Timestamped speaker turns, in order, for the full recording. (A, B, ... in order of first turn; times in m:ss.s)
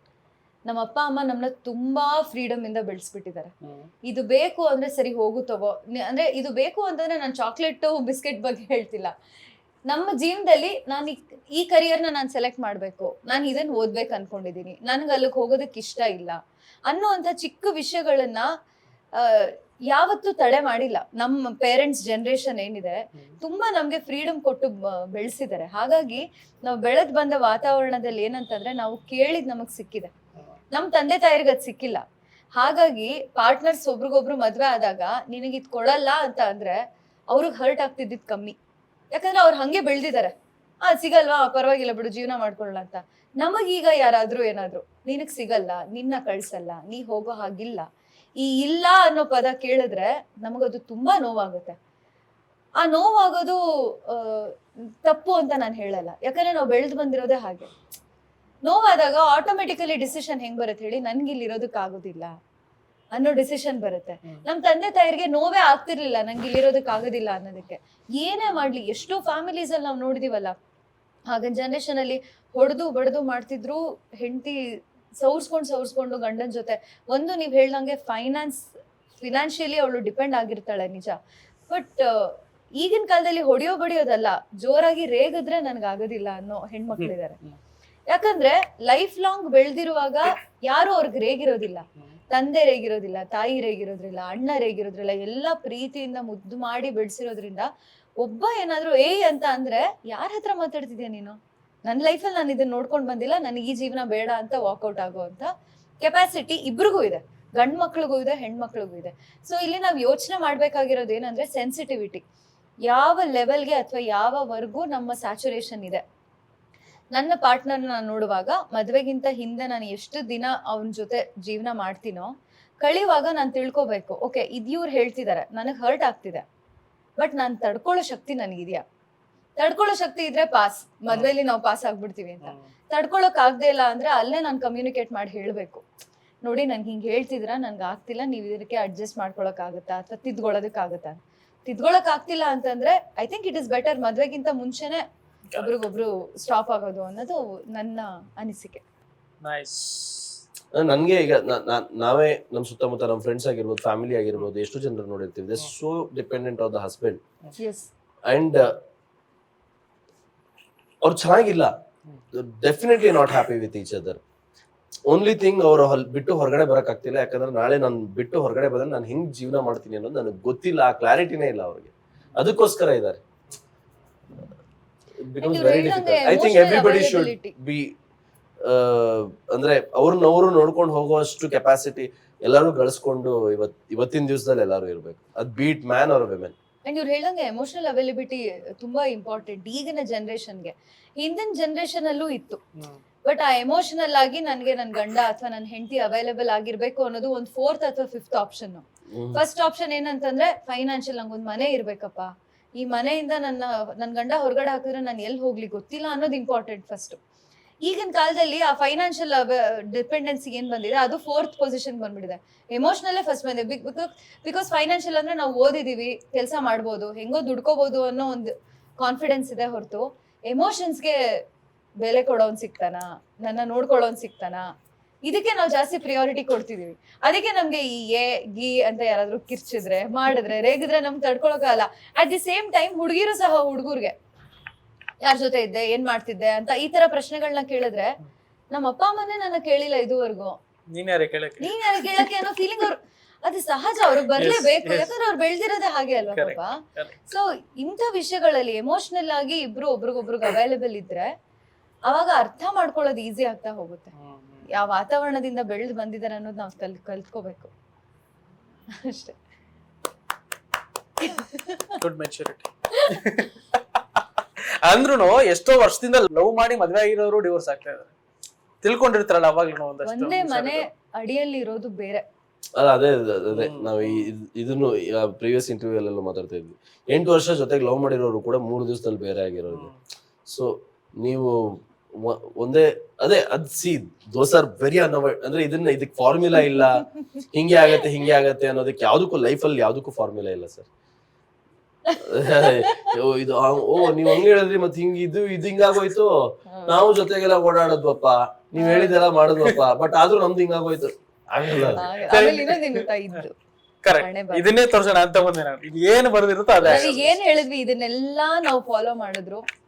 0:00.6-0:03.5 A
0:03.6-0:03.9 B
0:04.1-0:09.1 A
0:09.9-0:16.4 A
0:16.9-0:18.5 A
0:19.1-0:30.1 A
0:30.7-0:32.0 A
0:32.5-0:36.7 A
0:37.3-0:38.6 A
0:39.1-0:40.3 A
0:40.8-0:47.8 A
0:48.4-0:51.8 A
0:52.8-0:57.7 A
0:58.6-1:02.3 A
1:03.1-1:10.6 A
1:11.3-1:21.2 A
1:21.7-1:27.4 A
1:26.9-1:27.6 B
1:28.1-1:37.7 A
1:38.2-1:45.5 A
1:46.0-1:52.2 A
1:52.9-1:56.0 A
1:57.1-2:06.4 A
2:07.2-2:08.8 A
2:09.6-2:15.8 A
2:11.1-2:11.3 B
2:12.4-2:12.7 B
2:16.4-2:25.0 A
2:25.6-2:28.8 A
2:29.4-2:30.4 B
2:30.7-2:37.2 C
2:37.6-2:37.9 A
2:38.3-2:38.7 C
2:41.0-2:41.7 C
2:42.3-2:44.2 C
2:45.1-2:53.2 C
2:55.2-2:57.9 C
2:55.4-2:57.5 A
2:58.6-3:06.5 C
3:06.8-3:12.6 A
3:13.3-3:27.2 A
3:19.1-3:19.4 C
3:27.8-3:41.2 A
3:42.0-3:44.6 A
3:45.3-3:54.1 A
3:55.2-3:58.1 A
3:58.7-4:00.6 A
4:00.9-4:02.3 B
4:01.6-4:11.3 A
4:04.3-4:05.1 B
4:06.3-4:07.1 B
4:12.1-4:14.1 A
4:14.1-4:14.6 B
4:14.7-4:17.7 A
4:18.9-4:19.4 A
4:21.2-4:22.0 A
4:22.0-4:23.8 B
4:24.8-4:28.1 B
4:28.8-4:30.9 B
4:30.0-4:32.2 A
4:32.8-4:39.9 C
4:33.5-4:34.3 B
4:39.7-4:40.0 B
4:40.5-4:50.9 C
4:52.1-4:53.1 A
4:52.2-5:02.1 C
4:54.1-4:54.4 A
4:56.7-4:57.0 A
4:58.8-4:59.2 A
5:01.7-5:03.1 B
5:01.9-5:03.6 A
5:04.0-5:07.4 B
5:04.2-5:04.7 A
5:06.8-5:07.2 C
5:06.8-5:09.6 A